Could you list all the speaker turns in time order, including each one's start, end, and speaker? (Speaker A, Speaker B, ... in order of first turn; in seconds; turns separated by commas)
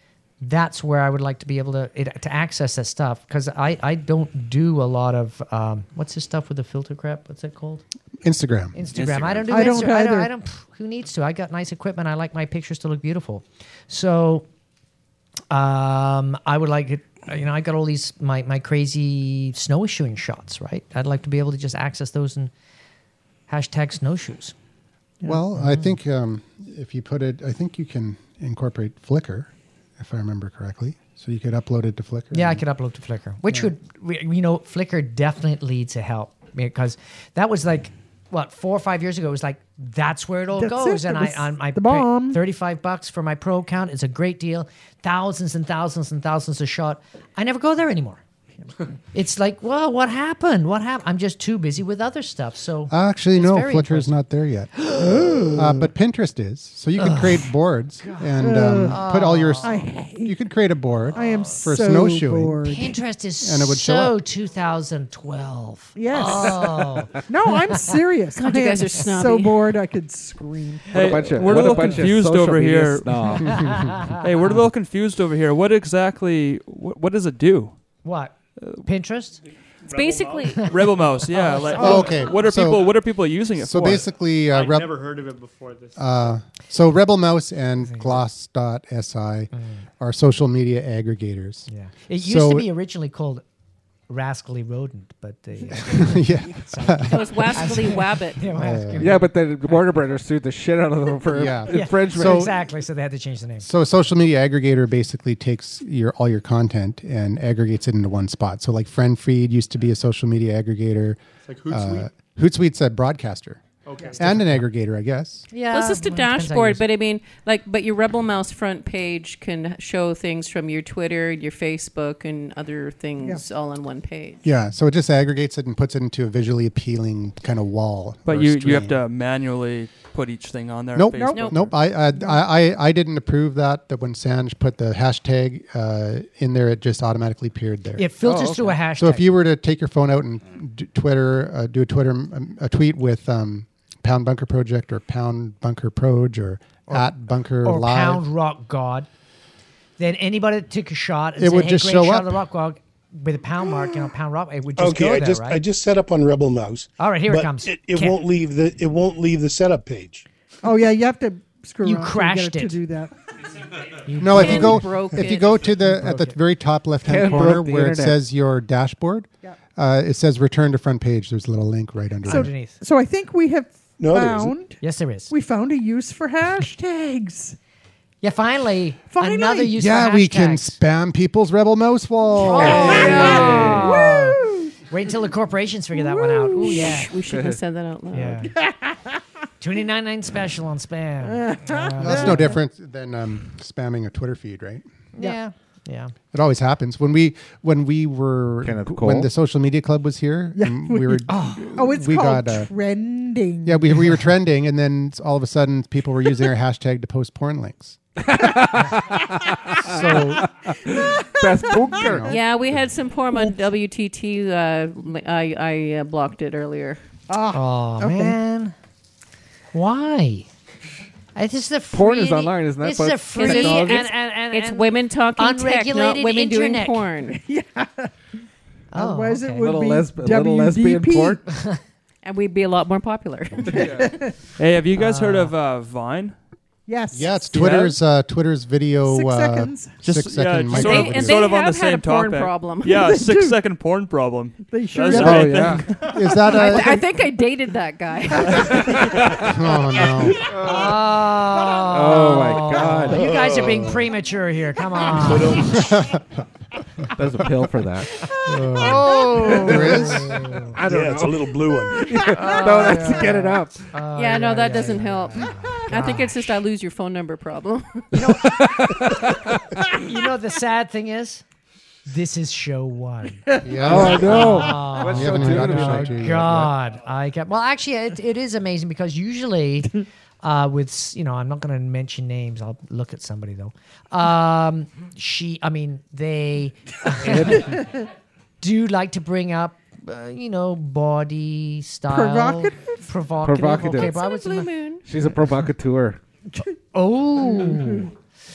Speaker A: 0.4-7.8, Speaker B: 8.2-8.8, Speaker A: 8.7-14.4, Speaker C: 9.5-10.3, Speaker A: 15.5-22.5, Speaker A: 23.5-24.5, Speaker B: 25.2-32.6, Speaker A: 25.6-25.9, Speaker A: 32.3-48.2, Speaker C: 40.5-42.4, Speaker A: 49.1-54.1, Speaker B: 52.9-54.7, Speaker A: 54.8-55.6, Speaker C: 55.2-55.5, Speaker B: 55.5-62.6, Speaker A: 57.0-57.5, Speaker A: 58.0-59.8, Speaker C: 58.4-59.0, Speaker C: 59.6-60.4, Speaker C: 61.1-63.0, Speaker A: 62.6-67.2, Speaker B: 63.4-64.2, Speaker C: 65.9-70.9, Speaker D: 68.3-69.7, Speaker E: 70.9-77.7, Speaker F: 70.9-74.2, Speaker A: 73.5-74.0, Speaker A: 78.0-79.4, Speaker G: 79.8-80.9, Speaker D: 79.9-80.8, Speaker E: 80.7-84.0, Speaker C: 81.6-82.0, Speaker B: 81.7-83.0, Speaker B: 83.5-85.0, Speaker G: 84.5-86.4, Speaker B: 86.0-92.7, Speaker A: 87.8-88.2, Speaker A: 89.5-89.8, Speaker A: 91.7-93.4, Speaker A: 94.1-99.8, Speaker B: 95.8-97.7, Speaker D: 97.1-98.4, Speaker B: 98.5-99.2, Speaker F: 99.0-102.5, Speaker B: 101.3-102.6, Speaker A: 101.7-103.7, Speaker B: 103.6-113.6, Speaker G: 111.5-112.1, Speaker G: 113.8-114.4, Speaker B: 114.2-115.5, Speaker A: 115.5-116.8, Speaker D: 115.7-124.4, Speaker B: 124.4-129.0, Speaker E: 128.2-131.6, Speaker B: 130.9-148.2, Speaker C: 131.2-131.5, Speaker A: 138.0-139.2, Speaker F: 138.3-138.6, Speaker A: 147.6-149.1, Speaker A: 150.0-155.6, Speaker B: 151.4-152.4, Speaker H: 154.8-160.2, Speaker A: 157.0-158.2, Speaker C: 160.6-163.1, Speaker A: 161.8-162.8, Speaker A: 164.1-166.3, Speaker B: 164.2-172.5, Speaker D: 164.3-165.6, Speaker F: 167.0-168.2, Speaker A: 172.2-172.8, Speaker C: 172.2-177.6, Speaker H: 174.0-174.5, Speaker A: 174.8-175.3, Speaker A: 178.2-180.8, Speaker C: 179.1-179.7, Speaker B: 179.7-183.4, Speaker C: 182.3-184.7, Speaker A: 182.4-187.1, Speaker F: 182.7-183.9, Speaker D: 182.8-183.8, Speaker C: 185.9-186.9, Speaker D: 186.6-188.4, Speaker F: 187.3-187.6, Speaker A: 188.1-188.5, Speaker C: 188.6-189.2, Speaker A: 189.6-192.6, Speaker C: 191.2-192.5, Speaker B: 192.0-194.8, Speaker A: 195.1-196.1, Speaker B: 196.3-202.7, Speaker F: 198.6-199.3, Speaker C: 200.6-204.2, Speaker A: 201.3-201.6, Speaker B: 203.6-208.0, Speaker F: 208.2-212.4, Speaker B: 209.8-210.5, Speaker C: 211.3-212.2, Speaker B: 211.9-212.4, Speaker D: 212.3-217.0, Speaker C: 217.3-218.3, Speaker A: 217.5-218.7, Speaker A: 219.7-220.5, Speaker A: 221.3-227.0, Speaker F: 221.9-224.1, Speaker D: 223.3-227.4, Speaker C: 227.3-228.1, Speaker A: 228.9-229.7, Speaker C: 228.9-231.4, Speaker F: 229.6-231.4, Speaker A: 231.5-231.8, Speaker D: 232.2-233.9, Speaker C: 233.7-234.3, Speaker F: 233.7-234.1, Speaker E: 234.6-236.3, Speaker A: 234.9-235.5, Speaker C: 236.9-237.7, Speaker B: 237.1-241.5, Speaker E: 237.6-237.9, Speaker C: 239.0-240.0, Speaker E: 240.0-245.8, Speaker D: 240.7-243.0, Speaker C: 242.8-243.6, Speaker C: 244.6-246.8, Speaker B: 245.1-247.0, Speaker F: 245.2-245.8, Speaker D: 246.4-249.3, Speaker F: 248.7-249.5, Speaker B: 249.2-250.5, Speaker F: 250.4-251.0, Speaker A: 250.6-255.7, Speaker F: 251.8-253.2, Speaker H: 253.1-254.1, Speaker H: 255.1-255.8, Speaker B: 255.6-256.2, Speaker F: 257.1-258.2, Speaker B: 258.4-260.4, Speaker A: 258.7-260.8, Speaker F: 258.8-263.9, Speaker C: 259.1-259.6, Speaker H: 260.8-262.0, Speaker C: 262.2-262.8, Speaker A: 262.4-266.4, Speaker D: 264.1-268.1, Speaker A: 268.1-269.2, Speaker F: 268.3-269.7, Speaker A: 270.0-271.4, Speaker A: 272.1-287.9, Speaker C: 273.5-275.1, Speaker B: 273.6-274.5, Speaker F: 273.8-276.4, Speaker B: 275.1-276.7, Speaker F: 287.2-287.7, Speaker A: 288.6-294.7, Speaker C: 292.1-293.0, Speaker F: 293.4-294.1, Speaker D: 293.9-295.0, Speaker F: 295.1-296.2, Speaker A: 296.9-298.1, Speaker C: 297.4-298.1